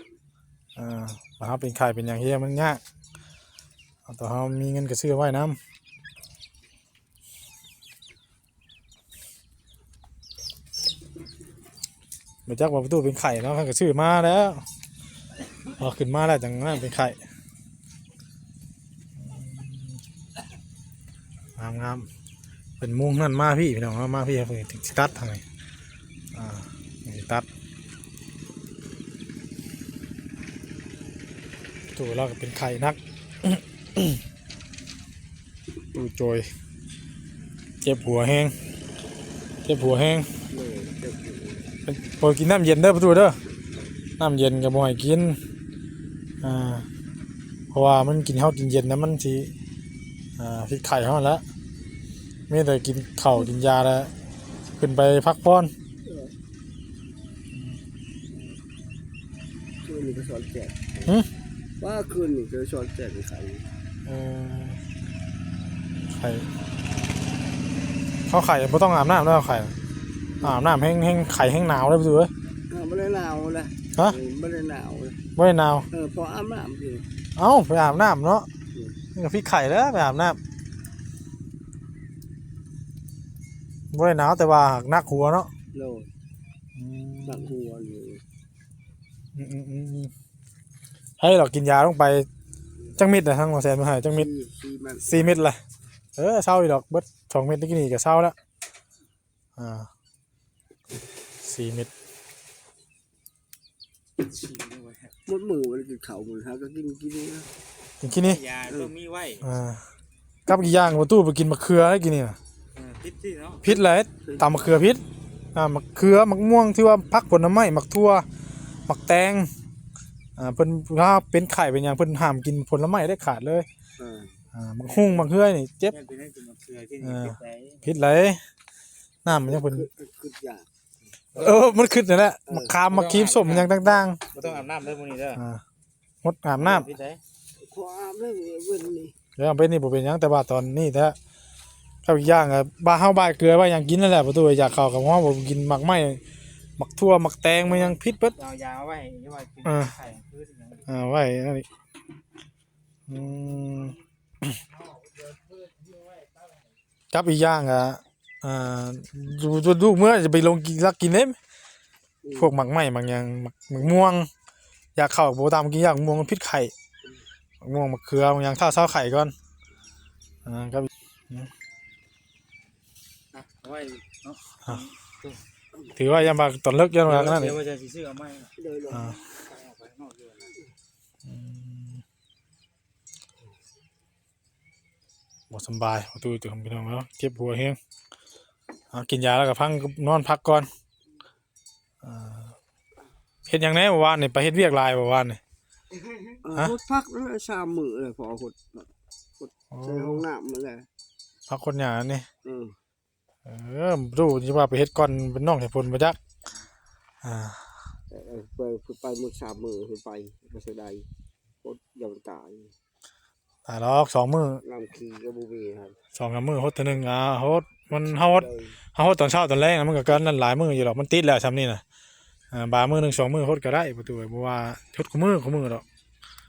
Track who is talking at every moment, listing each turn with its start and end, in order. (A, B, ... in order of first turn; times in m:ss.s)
0:00.8-0:02.8 A
0:04.0-0:05.6 A
0:12.5-0:14.6 A
0:15.8-0:17.2 A
0:19.2-0:20.0 A
0:21.6-0:22.1 A
0:22.8-0:25.4 A
0:26.3-0:27.5 A
0:32.0-0:34.2 A
0:35.9-0:36.5 A
0:37.8-0:38.5 A
0:39.6-0:40.3 A
0:40.5-0:41.8 B
0:41.9-0:43.4 A
0:44.2-0:45.4 A
0:46.4-0:46.9 A
0:47.7-0:49.5 A
0:50.4-0:51.4 A
0:52.5-0:54.1 A
0:54.7-0:55.7 A
0:56.0-0:56.3 B
0:59.8-1:01.1 B
1:01.8-1:03.7 B
1:04.1-1:04.8 A
1:06.1-1:06.5 A
1:08.3-1:09.8 A
1:10.4-1:10.7 B
1:10.4-1:12.3 A
1:12.7-1:15.2 B
1:15.4-1:15.9 A
1:15.9-1:17.1 B
1:17.4-1:18.5 A
1:19.1-1:20.4 A
1:23.9-1:25.5 A
1:25.7-1:26.1 B
1:26.8-1:27.5 A
1:27.2-1:28.2 B
1:29.4-1:30.1 A
1:31.2-1:32.3 A
1:33.0-1:34.3 A
1:34.1-1:35.4 B
1:35.0-1:35.6 A
1:36.2-1:38.4 A
1:39.6-1:39.9 A
1:41.4-1:41.9 A
1:44.2-1:45.1 C
1:45.3-1:47.5 B
1:48.0-1:48.4 A
1:48.2-1:49.4 C
1:49.4-1:49.8 A
1:50.5-1:52.4 A
1:52.8-1:53.6 C
1:53.6-1:58.3 A
1:54.2-1:54.6 B
1:58.9-1:59.5 A
2:00.4-2:03.7 A
2:04.0-2:04.4 B
2:04.5-2:06.0 A
2:04.8-2:05.2 C
2:05.9-2:08.0 C
2:07.0-2:08.4 A
2:09.2-2:09.9 A
2:09.3-2:10.7 B
2:11.3-2:14.2 A
2:12.5-2:12.8 B
2:12.9-2:15.4 C
2:15.3-2:15.6 A
2:16.2-2:16.9 A
2:16.6-2:17.2 C
2:17.6-2:19.2 B
2:19.4-2:21.2 A
2:22.0-2:26.2 A
2:26.8-2:28.4 A
2:27.7-2:30.9 C
2:29.6-2:30.0 A
2:30.9-2:31.7 A
2:33.1-2:34.6 A
2:35.2-2:36.5 C
2:37.1-2:41.4 A
2:42.2-2:42.5 B
2:42.4-2:44.3 A
2:45.0-2:46.7 A
2:47.6-2:49.3 A
2:50.4-2:51.5 A
2:53.3-2:55.4 C
2:54.6-2:54.9 A
2:55.9-2:57.6 A
2:57.0-2:58.5 C
2:58.6-2:59.2 B
2:58.9-2:59.2 A
2:59.3-3:00.5 C
3:01.2-3:02.0 A
3:05.5-3:07.8 A
3:08.9-3:10.7 A
3:12.0-3:12.6 A
3:13.5-3:15.4 A
3:16.4-3:20.9 B
3:19.7-3:20.2 A
3:21.5-3:22.3 A
3:22.4-3:22.8 B
3:23.4-3:26.2 A
3:27.2-3:27.9 A
3:28.1-3:31.1 B
3:31.6-3:32.7 B
3:33.7-3:34.6 A
3:34.6-3:36.0 B
3:36.1-3:41.8 A
3:38.0-3:38.8 B
3:42.5-3:45.8 A